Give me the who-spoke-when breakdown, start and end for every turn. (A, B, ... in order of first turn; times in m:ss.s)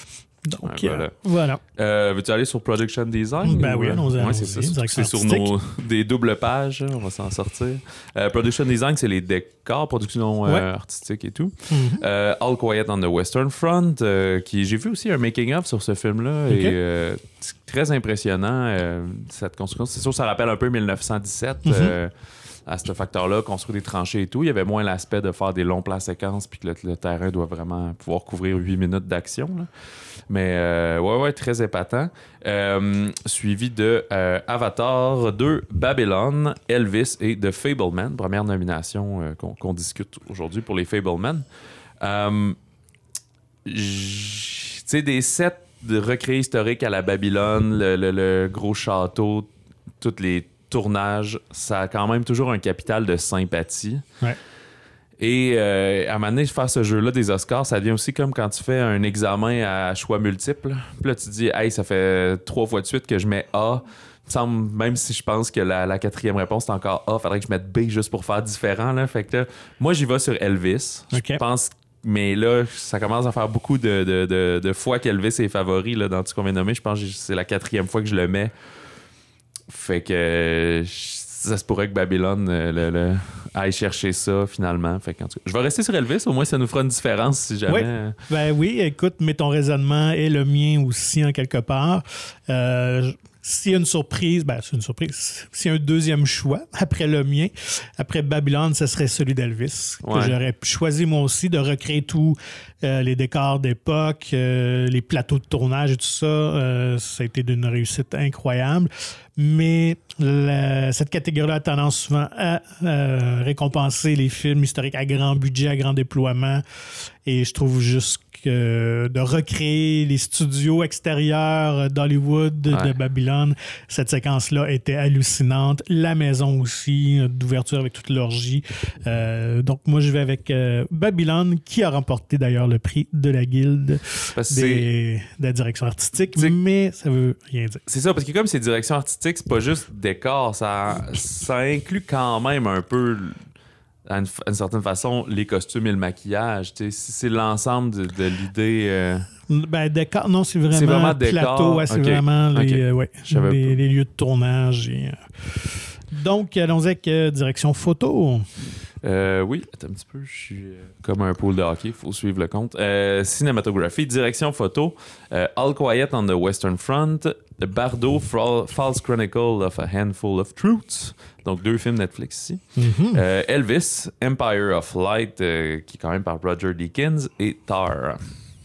0:00.4-0:01.6 A
0:00.6-0:01.1 B
0:01.7-0:22.1 B
0:03.4-0:05.5 A
0:11.7-0:12.0 A
0:16.5-0:16.8 A
0:21.6-0:21.9 A
0:22.6-0:29.7 B
0:30.3-0:41.4 B
0:42.0-0:42.6 B
0:43.6-0:49.5 B
0:50.0-0:54.0 B
0:55.2-1:18.5 B
1:11.1-1:11.4 A
1:19.7-1:28.2 B
1:27.7-1:56.6 A
1:40.0-1:40.4 B
1:57.2-2:17.8 A
2:14.3-2:14.9 B
2:17.9-2:23.4 B
2:24.0-2:29.3 B
2:29.5-2:38.5 A
2:30.7-2:33.8 B
2:39.0-2:58.3 B
2:52.8-2:53.2 A